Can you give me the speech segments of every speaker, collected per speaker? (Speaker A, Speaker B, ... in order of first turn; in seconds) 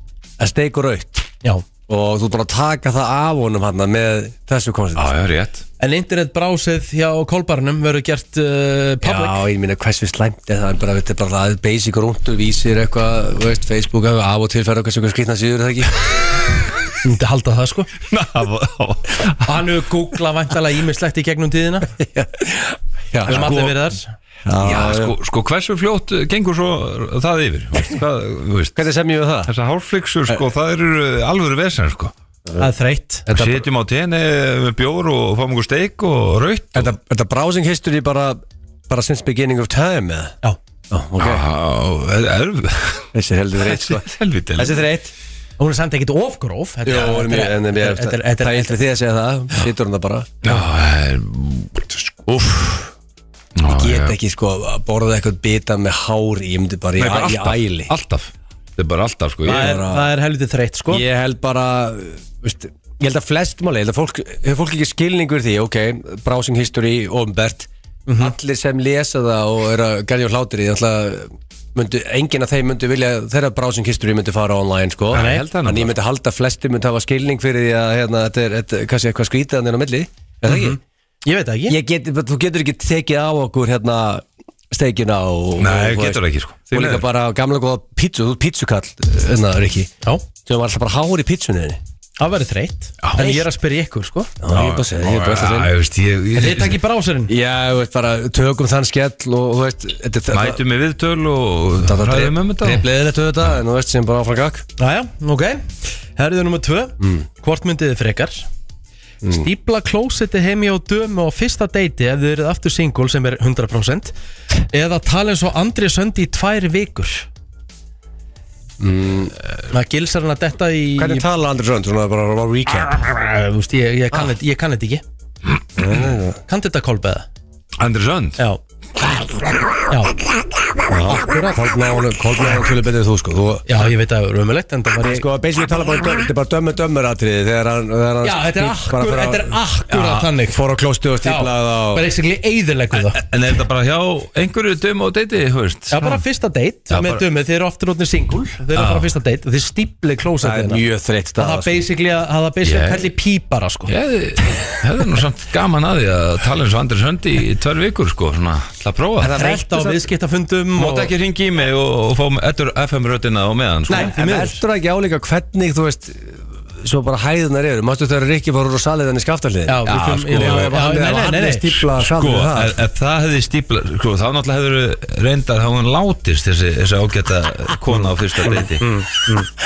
Speaker A: 0.4-1.3, 1.9-5.1, 9.0-16.6, 21.9-23.6, 24.4-25.1, 28.7-29.5, 33.3-33.6, 36.7-40.4, 40.9-41.4, 43.1-45.1, 46.8-50.4, 52.3-52.9, 53.6-57.9, 59.5-60.1, 60.9-80.8, 81.7-89.9, 90.4-91.8, 94.4-95.7, 97.3-100.6, 101.8-104.6, 107.0-107.2, 118.8-119.3, 121.0-123.1, 125.8-126.4, 130.9-133.8, 135.0-139.6, 140.5-142.1, 150.4-151.8, 159.2-160.1, 163.9-172.8
Speaker B: 4.9-5.6, 18.1-19.6, 23.3-23.9, 24.6-28.8, 29.4-32.1, 33.3-36.9, 41.2-44.8, 50.4-52.2, 53.5-54.1, 57.0-59.8, 75.1-75.9, 85.6-87.0, 93.0-93.4, 94.5-96.8, 100.3-102.9, 127.8-128.4, 139.9-140.3, 142.9-146.2, 146.9-147.2, 148.8-149.1, 152.6-153.1, 153.9-159.4, 160.8-164.4, 169.9-170.7, 172.0-178.9
Speaker C: 5.8-9.4, 17.0-17.9, 19.4-21.9, 23.3-24.1, 32.6-33.3, 45.6-48.8, 59.4-61.0, 68.1-68.3, 75.1-75.4, 80.5-81.8, 92.2-94.3, 96.3-97.3, 104.8-108.5, 109.3-114.1, 114.7-117.3, 119.7-121.3, 123.1-125.0, 126.5-127.3, 129.9-130.2, 133.7-135.3, 138.2-140.6, 141.2-143.2, 145.9-150.8, 151.4-153.9, 159.3-161.1, 163.9-164.6, 169.7-171.8, 178.6-179.5